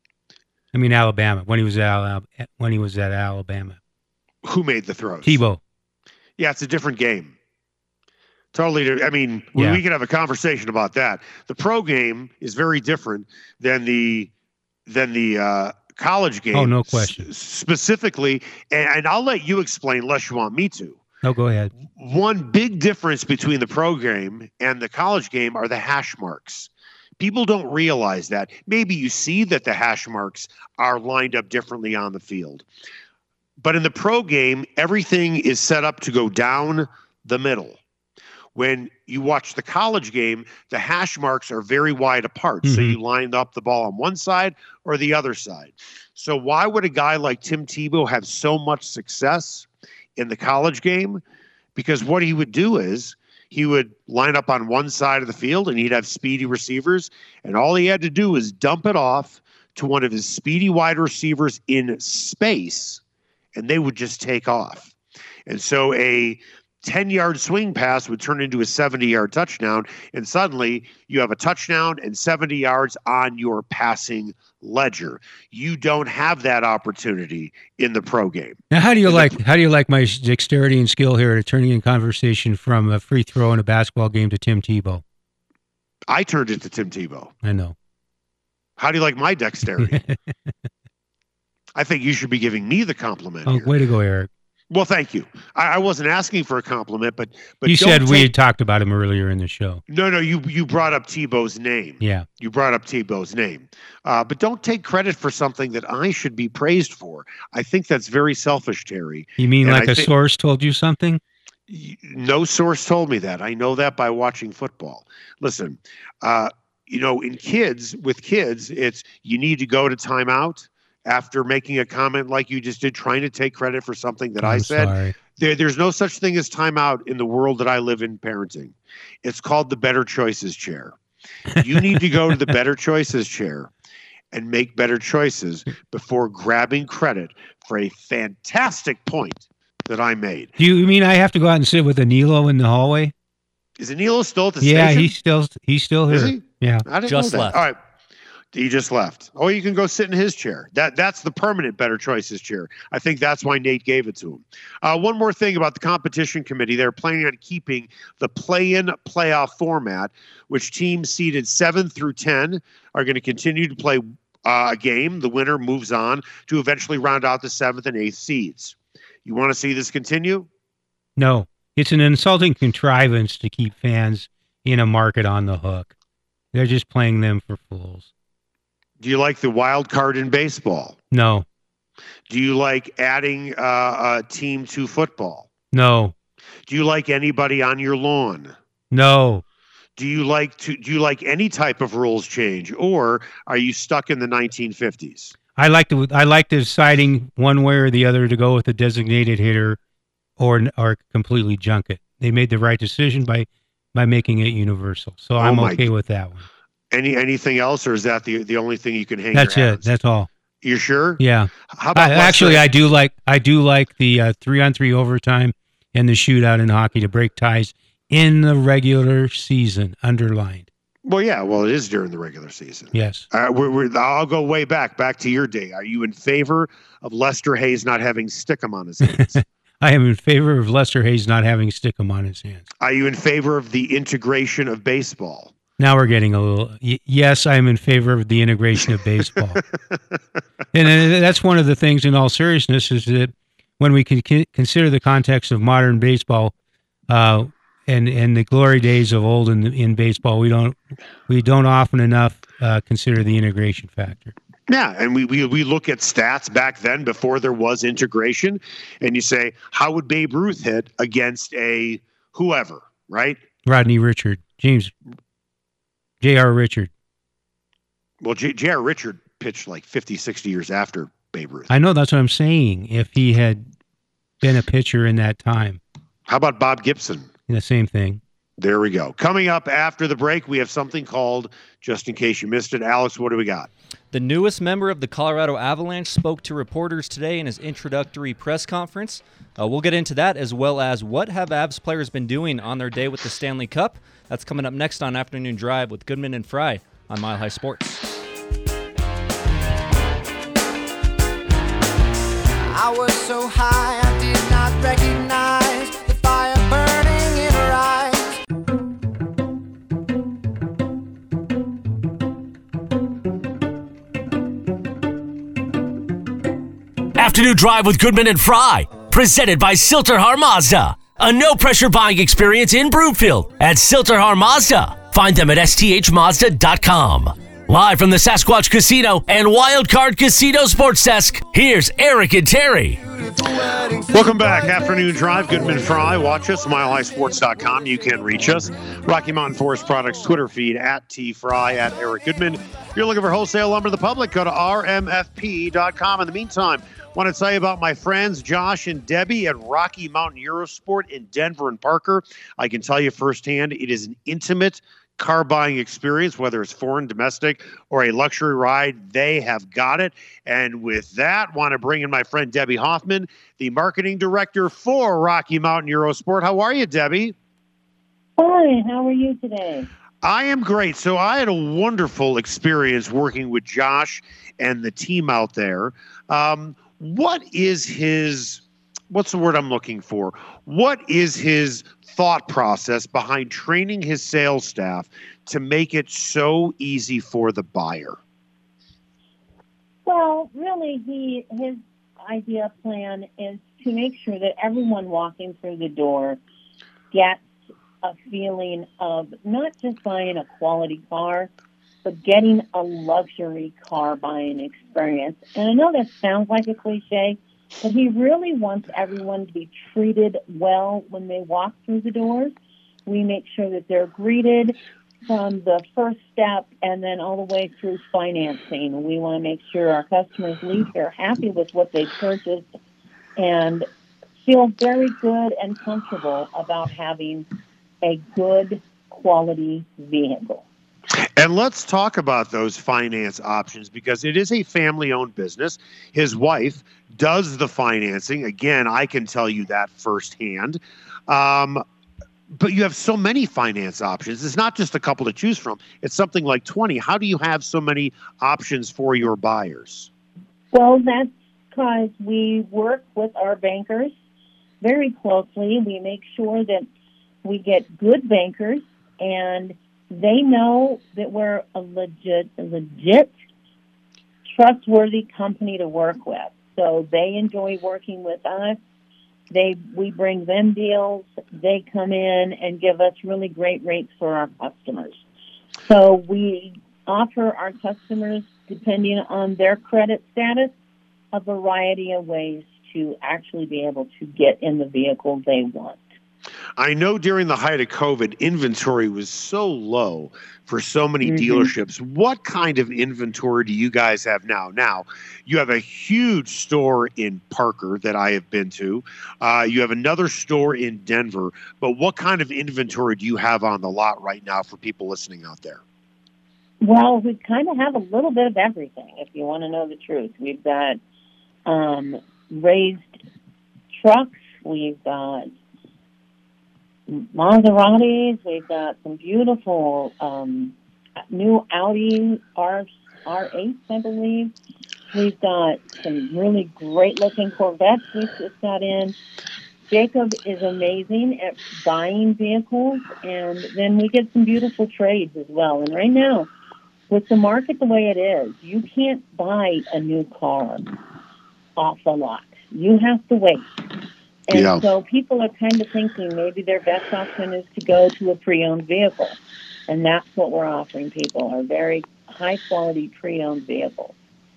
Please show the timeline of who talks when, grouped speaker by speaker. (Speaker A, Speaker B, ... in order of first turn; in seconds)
Speaker A: 0.7-3.8, 5.2-5.6, 9.6-9.8, 16.5-17.3, 21.2-21.7, 42.6-43.0, 78.7-85.0, 87.4-87.8, 89.8-90.2, 93.5-94.3, 97.7-99.8, 102.0-102.3, 109.4-111.2, 124.4-125.2, 131.6-132.0, 140.6-143.1, 144.6-146.9, 171.2-175.9, 176.5-178.1, 181.1-181.4, 185.7-186.1, 188.9-189.4, 195.6-199.8, 200.4-206.5, 209.3-210.3, 211.2-220.7, 222.9-223.3, 229.2-232.7, 235.8-239.6, 240.7-246.5, 247.1-250.8, 251.3-254.3, 263.7-264.9, 266.2-266.9, 271.7-273.6, 274.4-275.8, 277.5-278.2
Speaker B: 4.4-5.4, 6.4-7.3, 8.5-14.3, 14.9-21.0, 21.9-32.6, 33.6-37.8, 38.5-51.2, 51.8-63.0, 63.5-64.9, 65.5-79.4, 86.1-87.3, 88.8-90.0, 91.8-93.8, 94.7-98.3, 99.9-110.1, 111.7-130.9, 131.6-133.7, 134.3-140.5, 143.8-145.1, 146.1-147.8, 148.5-170.5, 179.0-181.0, 182.3-185.5, 186.7-188.5, 190.0-195.3, 205.4-205.9, 206.9-209.9, 210.6-212.7, 221.1-229.4, 232.8-235.5, 254.7-263.4, 268.2-271.7, 276.3-277.3, 278.6-283.7, 334.1-367.3, 370.2-388.2, 431.4-441.8, 442.5-450.1, 486.8-505.8, 544.5-544.8
Speaker C: 147.1-147.6, 284.1-298.0
Speaker D: 302.6-308.4, 333.1-334.9
Speaker E: 317.2-333.0
Speaker F: 368.4-369.9, 390.1-396.4, 397.1-397.4, 398.0-401.5, 402.0-412.5, 413.1-414.8, 415.3-422.6, 423.4-423.9, 424.4-427.5, 428.0-430.6, 450.7-454.1, 454.8-456.9, 457.4-463.3, 464.5-468.8, 469.5-475.2, 475.9-480.7, 481.3-486.0, 491.2-491.7, 506.8-511.0, 511.6-513.2, 513.9-515.5, 517.1-520.7, 521.3-524.5, 525.1-529.1, 529.9-536.5, 537.1-540.9, 541.8-543.7, 544.5-554.1